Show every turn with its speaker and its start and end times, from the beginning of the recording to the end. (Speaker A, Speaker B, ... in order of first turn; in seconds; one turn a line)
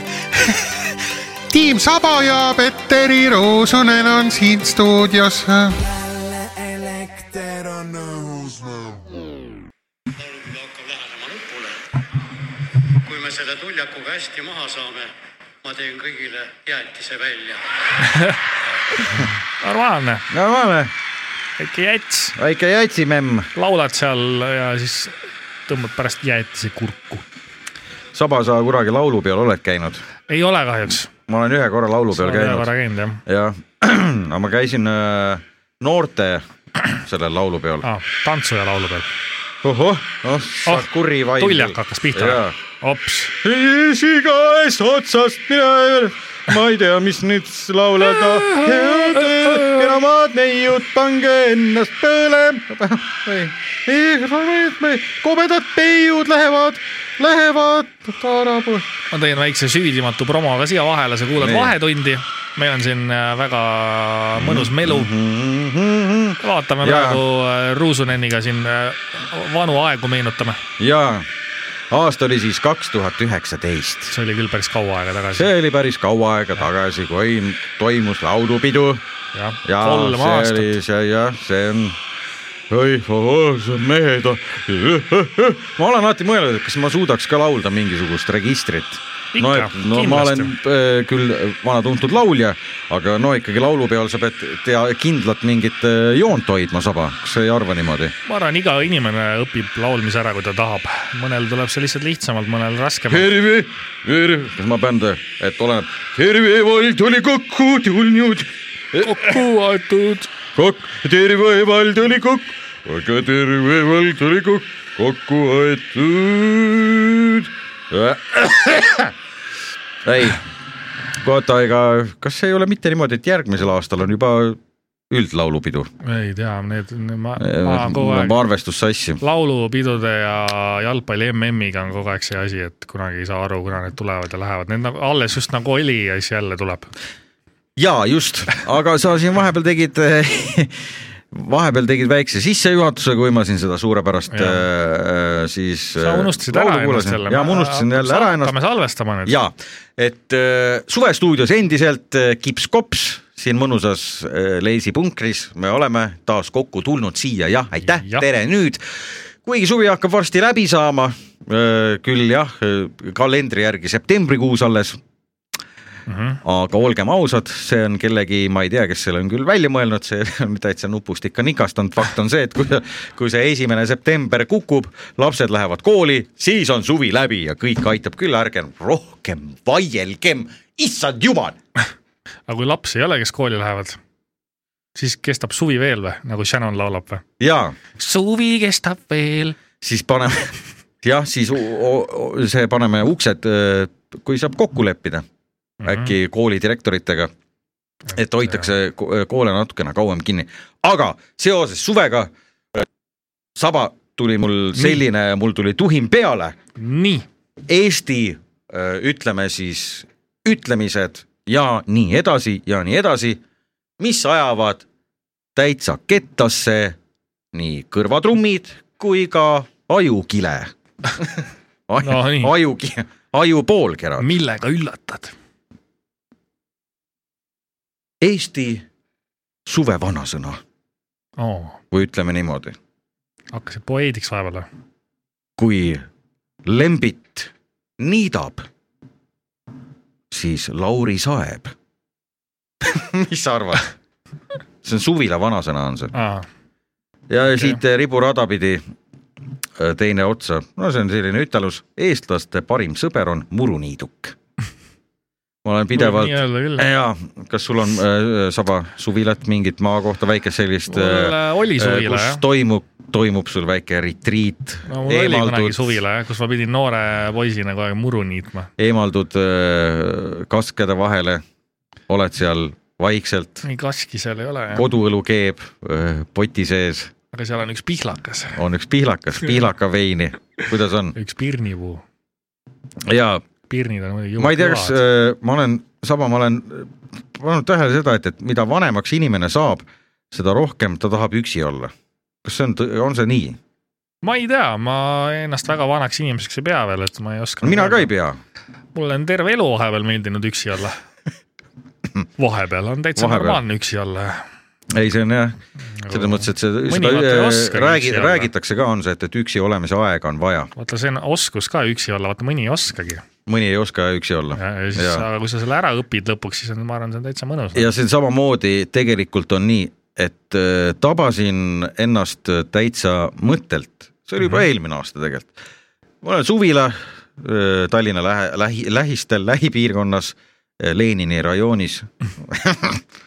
Speaker A: 0.2-0.9
Speaker B: 1.5-5.7
Speaker A: 5.8-9.2
Speaker C: 10.2-11.8
Speaker C: 12.9-15.1
Speaker C: 15.6-17.6
Speaker D: 18.0-18.4
Speaker D: 19.0-20.2
Speaker E: 20.3-20.9
Speaker D: 21.6-22.4
Speaker E: 22.4-23.5
Speaker D: 23.5-25.1
Speaker D: 25.7-27.2
Speaker E: 28.1-30.0
Speaker D: 30.3-31.1
Speaker E: 31.3-32.7
Speaker D: 32.1-33.2
Speaker E: 33.2-37.9
Speaker D: 37.8-39.1
Speaker E: 39.6-42.5
Speaker D: 40.6-43.4
Speaker E: 43.4-58.9
Speaker D: 48.4-49.8
Speaker D: 59.1-65.1
Speaker E: 61.4-61.7
Speaker E: 64.3-67.2
Speaker D: 66.4-70.6
Speaker E: 70.8-71.3
Speaker E: 71.9-74.1
Speaker D: 74.1-75.5
Speaker E: 75.3-79.0
Speaker D: 79.3-80.7
Speaker E: 79.6-82.0
Speaker E: 82.7-98.1
Speaker D: 89.3-90.5
Speaker D: 98.2-103.3
Speaker E: 103.1-109.3
Speaker D: 108.9-110.3
Speaker E: 110.5-119.1
Speaker E: 120.0-120.4
Speaker E: 121.2-125.9
Speaker D: 126.0-128.4
Speaker E: 127.4-129.2
Speaker D: 129.2-136.9
Speaker E: 137.8-148.6
Speaker D: 144.3-144.6
Speaker D: 146.0-149.3
Speaker E: 149.2-165.0
Speaker D: 157.8-158.2
Speaker D: 166.1-166.4
Speaker E: 166.4-181.6
Speaker D: 182.5-184.0
Speaker D: 184.9-187.2
Speaker E: 187.4-187.7
Speaker D: 188.0-189.6
Speaker E: 189.8-195.2
Speaker D: 195.8-196.1
Speaker E: 195.8-197.3
Speaker D: 198.1-198.7
Speaker E: 198.1-202.8
Speaker E: 203.6-206.6
Speaker D: 206.8-207.2
Speaker E: 207.7-213.4
Speaker E: 214.0-214.8
Speaker E: 215.6-217.0
Speaker E: 217.5-224.3
Speaker D: 222.0-222.5
Speaker D: 224.2-225.3
Speaker E: 228.2-228.8
Speaker E: 229.7-230.6
Speaker D: 231.4-231.8
Speaker E: 231.9-232.8
Speaker D: 233.5-234.7
Speaker E: 235.6-236.0
Speaker E: 236.6-238.7
Speaker E: 240.3-241.7
Speaker E: 242.8-243.9
Speaker E: 244.8-246.1
Speaker D: 246.1-246.4
Speaker E: 247.3-248.8
Speaker E: 249.8-254.3
Speaker E: 255.6-265.9
Speaker D: 255.9-256.9
Speaker D: 260.9-262.4
Speaker D: 264.9-268.7
Speaker E: 268.8-271.4
Speaker E: 272.1-273.6
Speaker D: 273.6-274.9
Speaker E: 274.7-277.1
Speaker D: 277.3-278.6
Speaker E: 278.5-281.1
Speaker D: 281.1-282.0
Speaker E: 283.0-283.4
Speaker D: 283.7-285.0
Speaker E: 284.4-291.9
Speaker E: 292.4-293.6
Speaker D: 294.2-298.1
Speaker E: 297.6-298.4
Speaker D: 298.9-301.0
Speaker D: 302.4-304.4
Speaker E: 303.1-303.6
Speaker E: 304.9-310.7
Speaker D: 305.9-308.5
Speaker D: 310.8-313.2
Speaker E: 313.4-315.2
Speaker D: 314.6-317.9
Speaker E: 317.7-325.5
Speaker E: 326.2-333.0